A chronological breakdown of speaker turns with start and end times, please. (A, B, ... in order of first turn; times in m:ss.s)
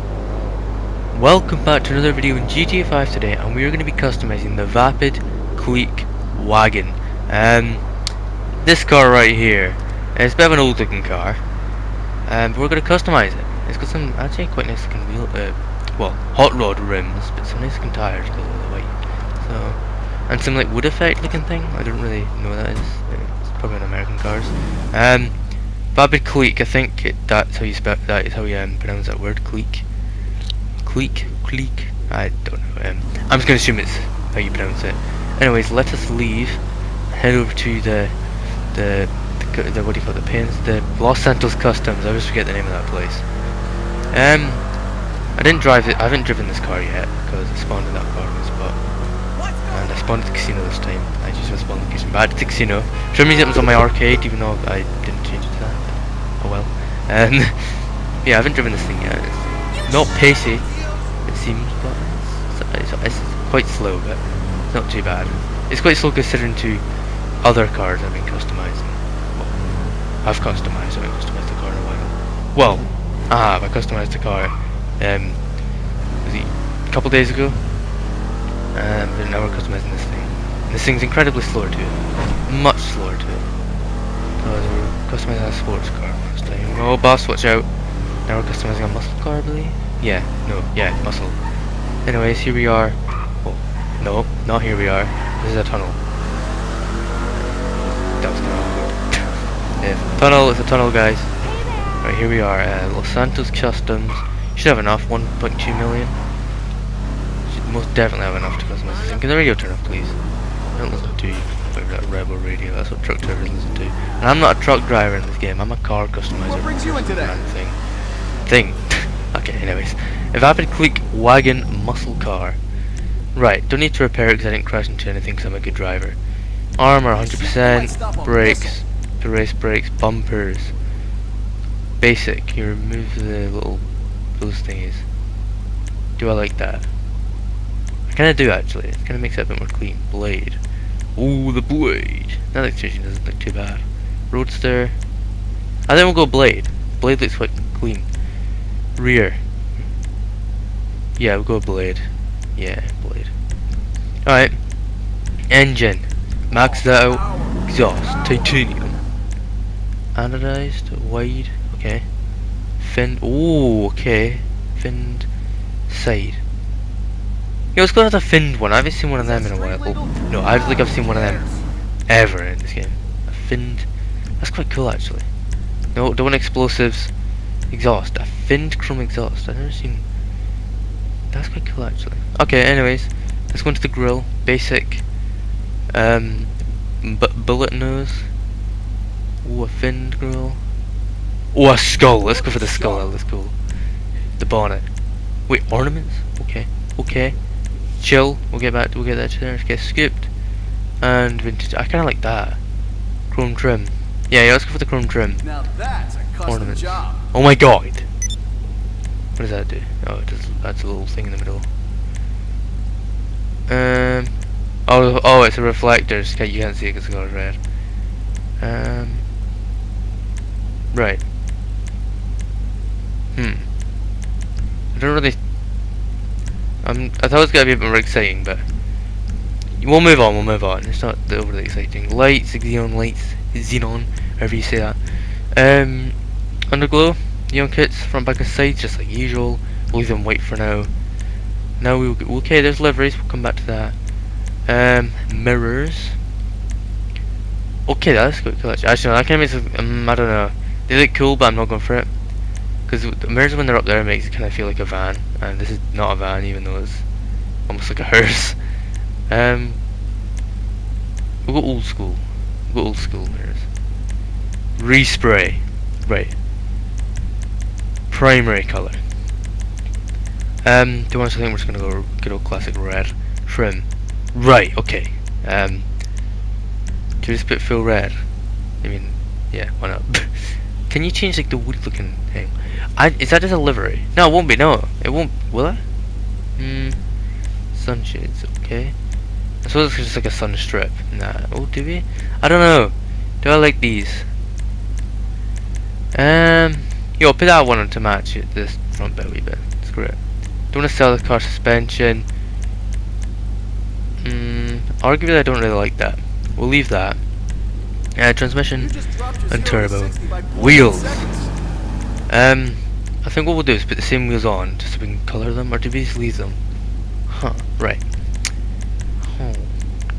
0:01.1-0:07.8 A
0:08.6-0:11.4 A
0:12.3-0:25.3 A
0:25.9-0:29.8 A
0:30.8-0:36.6 A
0:37.1-0:38.1 A
0:38.7-0:43.2 A
0:44.1-0:44.6 A
0:45.4-0:48.8 A
0:49.7-1:00.7 A
1:01.2-1:06.8 A
1:07.4-1:09.6 A
1:10.2-1:15.4 A
1:16.2-1:17.6 A
1:18.7-1:23.4 A
1:24.4-1:27.7 A
1:28.3-1:31.4 A
1:32.0-1:36.0 A
1:38.2-1:41.3 A
1:42.0-1:46.2 A
1:47.5-1:50.1 A
1:50.7-1:57.8 A
1:56.5-1:57.3 B
1:58.4-2:02.6 A
2:03.3-2:06.2 A
2:06.8-2:10.7 A
2:07.1-2:08.7 B
2:12.0-2:13.8 A
2:14.4-2:15.0 A
2:16.2-2:16.9 A
2:18.1-2:20.6 A
2:21.2-2:24.9 A
2:25.9-2:28.1 A
2:29.0-2:29.4 A
2:31.2-2:33.3 A
2:34.2-2:34.6 A
2:35.5-2:39.0 A
2:40.1-2:42.0 A
2:42.8-2:45.3 A
2:45.9-2:46.4 A
2:47.7-2:51.4 A
2:49.2-2:51.6 B
2:52.1-2:53.9 A
2:54.4-2:55.3 A
2:55.9-2:57.1 A
2:57.7-3:00.0 A
3:01.3-3:05.0 A
3:05.9-3:08.3 A
3:09.4-3:10.6 A
3:11.5-3:13.5 A
3:12.2-3:13.1 B
3:14.4-3:14.9 A
3:15.5-3:17.4 A
3:18.0-3:20.3 A
3:21.0-3:22.6 A
3:23.3-3:25.4 A
3:25.4-3:27.2 B
3:26.4-3:28.1 A
3:29.4-3:31.7 A
3:33.7-3:34.3 A
3:34.9-3:37.6 A
3:38.6-3:39.2 A
3:40.9-3:41.2 A
3:43.3-3:43.7 A
3:44.9-3:45.4 A
3:46.8-3:48.6 A
3:49.8-3:55.0 A
3:55.5-3:56.2 A
3:56.7-4:00.9 A
4:01.8-4:03.9 A
4:04.7-4:06.2 A
4:07.9-4:12.1 A
4:12.9-4:17.0 A
4:17.7-4:18.6 A
4:19.3-4:19.8 A
4:21.4-4:23.7 A
4:24.8-4:26.3 A
4:28.1-4:29.0 A
4:30.6-4:35.8 A
4:37.2-4:38.2 A
4:38.8-4:45.8 A
4:46.6-4:47.0 A
4:47.7-4:49.0 A
4:49.6-4:54.3 A
4:56.1-5:00.2 A
5:00.7-5:02.2 A
5:04.2-5:07.2 A
5:08.2-5:08.9 A
5:08.8-5:11.5 B
5:09.5-5:11.3 A
5:12.3-5:16.6 A
5:17.3-5:18.0 A
5:19.2-5:19.7 A